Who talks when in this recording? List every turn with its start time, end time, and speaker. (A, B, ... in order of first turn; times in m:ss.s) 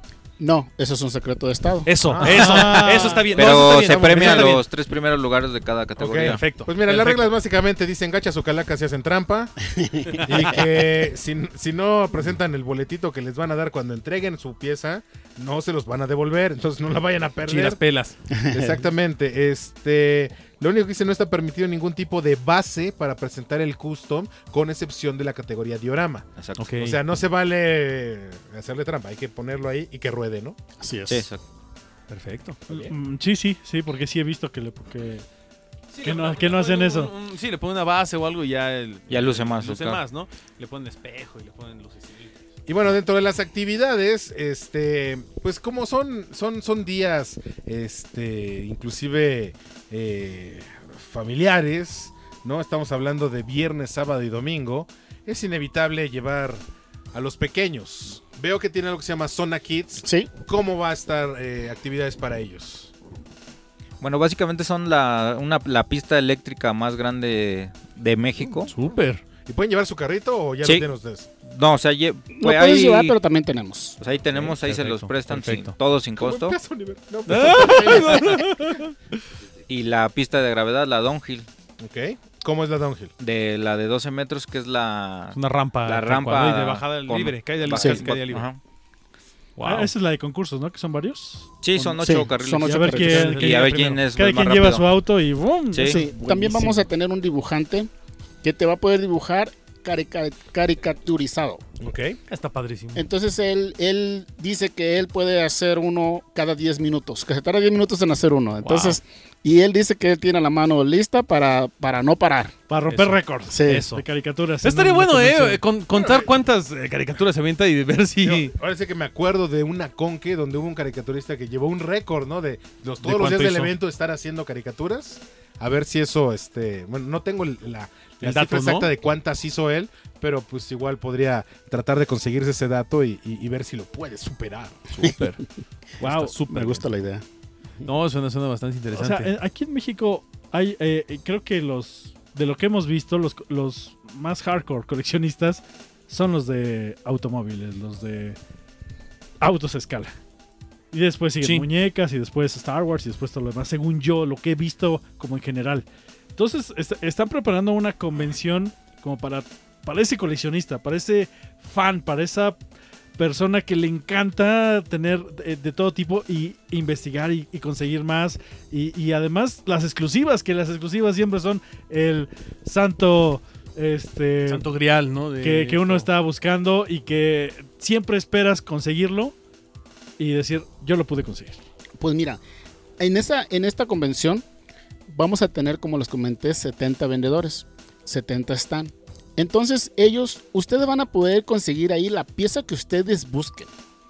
0:00.4-0:01.9 A
0:01.9-0:04.6 B
0:02.1-0:02.6 C
0:02.2-0:03.3 D
0:03.1-0:06.4 E
0:03.4-0:04.6 C
0:06.0-0:09.6 C
0:06.1-0:07.3 B
0:09.8-0:10.2 A
0:10.2-0:17.8 C
0:17.5-0:18.2 B
0:18.3-0:18.7 A
0:18.5-0:30.6 C
0:26.4-0:26.7 E
0:26.6-0:27.0 B
0:30.8-0:31.3 A
0:31.1-0:31.4 E
0:32.1-0:32.6 B
0:32.7-0:32.9 C
0:32.7-0:35.2 D
0:35.9-0:42.3 B
0:36.0-0:37.1 D
0:39.1-0:40.0 E
0:42.7-0:56.6 C
0:57.1-1:02.9 C
1:00.0-1:00.3 A
1:04.0-1:08.7 E
1:08.4-1:09.2 B
1:09.5-1:11.3 C
1:11.4-1:13.2 E
1:12.4-1:14.0 A
1:14.0-1:16.6 E
1:14.3-1:15.8 B
1:16.2-1:18.5 C
1:17.3-1:19.2 B
1:19.7-1:21.5 E
1:21.8-1:23.1 C
1:23.2-1:28.6 E
1:25.3-1:28.5 B
1:27.8-1:28.0 A
1:29.6-1:29.9 B
1:29.6-1:31.5 D
1:31.6-1:34.9 E
1:32.0-1:33.2 A
1:32.1-1:36.8 D
1:33.1-1:34.0 B
1:35.7-1:36.0 E
1:35.8-1:37.9 A
1:38.4-1:41.6 A
1:41.8-1:42.2 C
1:42.3-1:43.0 B
1:43.0-1:52.5 A
1:48.6-1:49.0 B
1:52.7-1:55.6 D
1:52.9-1:54.0 B
1:53.5-1:53.9 A
1:54.6-1:58.5 B
1:55.9-1:56.3 C
1:58.2-2:14.9 C
2:03.0-2:03.7 B
2:08.2-2:08.9 B
2:14.9-2:15.4 B
2:16.0-2:16.8 B
2:16.0-2:16.3 D
2:16.4-2:17.2 A
2:17.8-2:19.3 B
2:18.9-2:28.4 D
2:29.4-2:30.1 D
2:30.9-2:35.9 D
2:36.4-2:42.6 D
2:43.2-2:54.7 D
2:54.5-2:56.1 B
2:55.4-2:59.4 D
3:00.2-3:01.6 D
3:02.0-3:02.4 A
3:03.0-3:04.4 A
3:05.1-3:13.7 A